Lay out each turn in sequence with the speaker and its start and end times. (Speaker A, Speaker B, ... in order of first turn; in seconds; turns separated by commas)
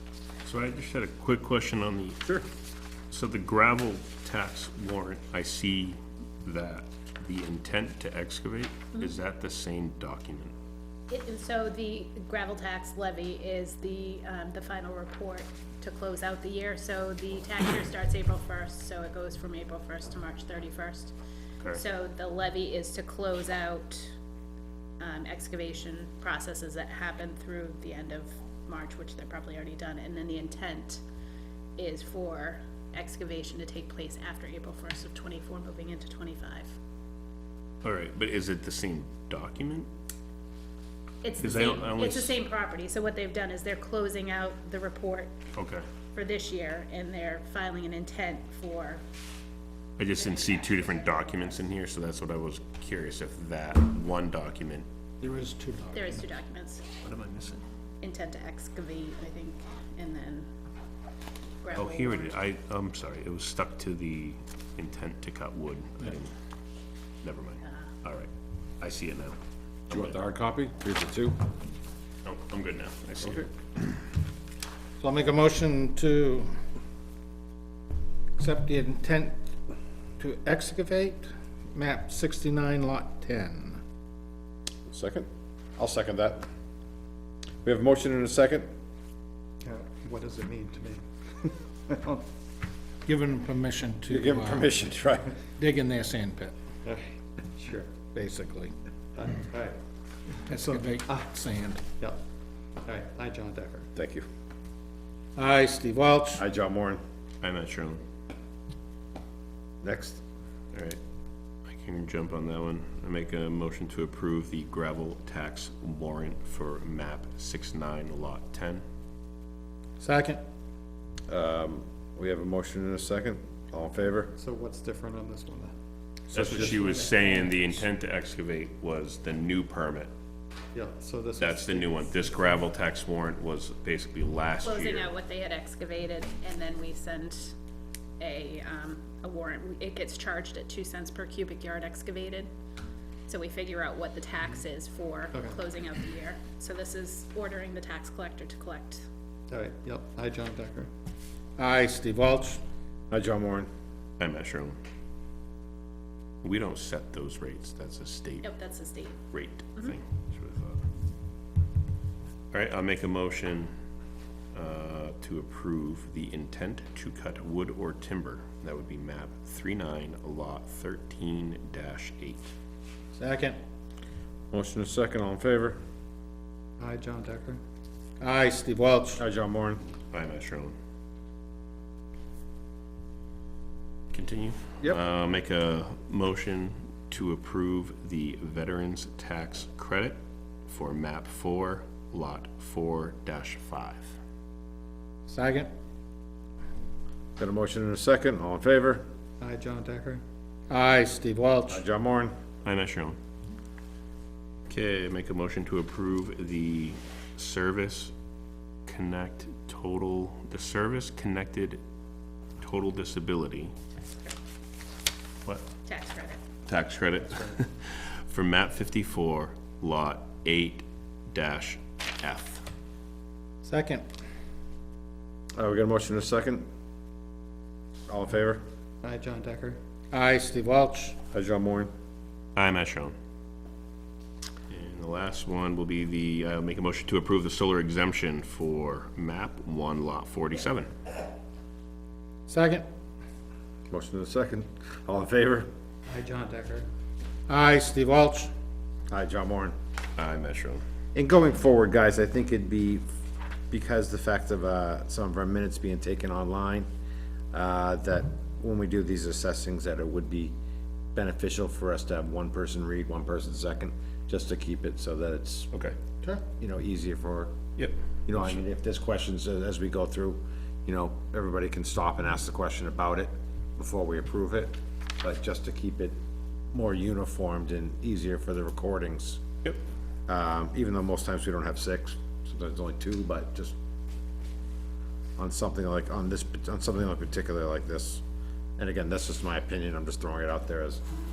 Speaker A: 0.4-2.4, Speaker A: 3.1-10.5, Speaker B: 11.1-21.1, Speaker B: 21.7-24.1, Speaker B: 25.0-31.0, Speaker B: 31.8-36.7, Speaker A: 37.8-39.9, Speaker B: 41.2-45.3, Speaker A: 41.4-42.4, Speaker A: 45.5-45.8, Speaker B: 46.1-49.0, Speaker A: 50.0-54.9, Speaker B: 50.2-51.6, Speaker C: 55.2-56.2, Speaker B: 55.9-56.8, Speaker A: 57.0-57.6, Speaker B: 58.0-60.5, Speaker B: 61.6-62.4, Speaker A: 61.7-66.3, Speaker A: 67.2-68.3, Speaker A: 68.8-69.4, Speaker A: 69.9-70.1, Speaker D: 69.9-71.4, Speaker A: 72.2-73.5, Speaker D: 73.2-73.5, Speaker C: 75.0-76.5, Speaker C: 78.4-79.3, Speaker C: 80.2-83.8, Speaker D: 84.9-86.5, Speaker D: 87.6-88.7, Speaker E: 89.6-92.2, Speaker C: 93.0-94.7, Speaker D: 94.1-95.4, Speaker C: 95.6-96.5, Speaker E: 96.8-98.0, Speaker C: 98.1-98.7, Speaker E: 99.1-99.8, Speaker C: 100.5-101.8, Speaker E: 100.5-101.2, Speaker E: 102.8-103.9, Speaker D: 104.0-104.2, Speaker C: 105.3-106.4, Speaker D: 106.4-107.0, Speaker A: 107.4-108.0, Speaker D: 109.8-110.2, Speaker A: 110.7-111.0, Speaker A: 111.7-118.8, Speaker C: 120.0-120.4, Speaker D: 121.3-124.3, Speaker E: 124.3-125.7, Speaker D: 126.3-126.7, Speaker A: 126.3-130.1, Speaker E: 130.7-132.3, Speaker A: 131.4-135.1, Speaker B: 134.6-137.5, Speaker B: 138.2-142.5, Speaker B: 143.3-149.0, Speaker E: 149.5-150.9, Speaker C: 151.6-152.6, Speaker D: 153.1-153.7, Speaker A: 154.2-154.8, Speaker A: 156.4-158.5, Speaker B: 158.4-159.2, Speaker A: 159.3-160.8, Speaker A: 162.5-163.7, Speaker A: 164.5-172.5, Speaker C: 173.2-173.6, Speaker D: 174.5-175.8, Speaker E: 176.8-177.6, Speaker C: 178.2-179.2, Speaker D: 179.2-179.8, Speaker A: 180.1-180.7, Speaker A: 184.1-194.1, Speaker C: 195.3-195.7, Speaker D: 197.4-199.0, Speaker E: 199.4-200.2, Speaker C: 200.7-201.8, Speaker D: 201.7-202.3, Speaker A: 202.6-203.2, Speaker A: 204.7-208.1, Speaker A: 208.8-211.8, Speaker A: 212.6-213.7, Speaker B: 215.8-216.4, Speaker A: 216.7-222.7, Speaker C: 223.6-224.0, Speaker D: 225.6-226.7, Speaker D: 228.1-228.6, Speaker E: 229.0-229.8, Speaker C: 230.1-231.2, Speaker D: 231.3-231.9, Speaker A: 232.6-233.1, Speaker A: 234.7-240.9, Speaker C: 242.5-242.8, Speaker D: 243.9-245.7, Speaker E: 246.1-246.9, Speaker C: 247.5-248.5, Speaker D: 249.1-249.7, Speaker A: 250.2-250.8, Speaker D: 251.1-253.0, Speaker D: 253.7-256.9, Speaker D: 257.5-260.5, Speaker D: 261.1-265.7, Speaker D: 266.6-267.5, Speaker A: 267.8-268.5, Speaker D: 268.3-276.1, Speaker D: 276.7-279.4, Speaker D: 280.3-283.7, Speaker D: 285.4-288.2, Speaker D: 288.8-291.0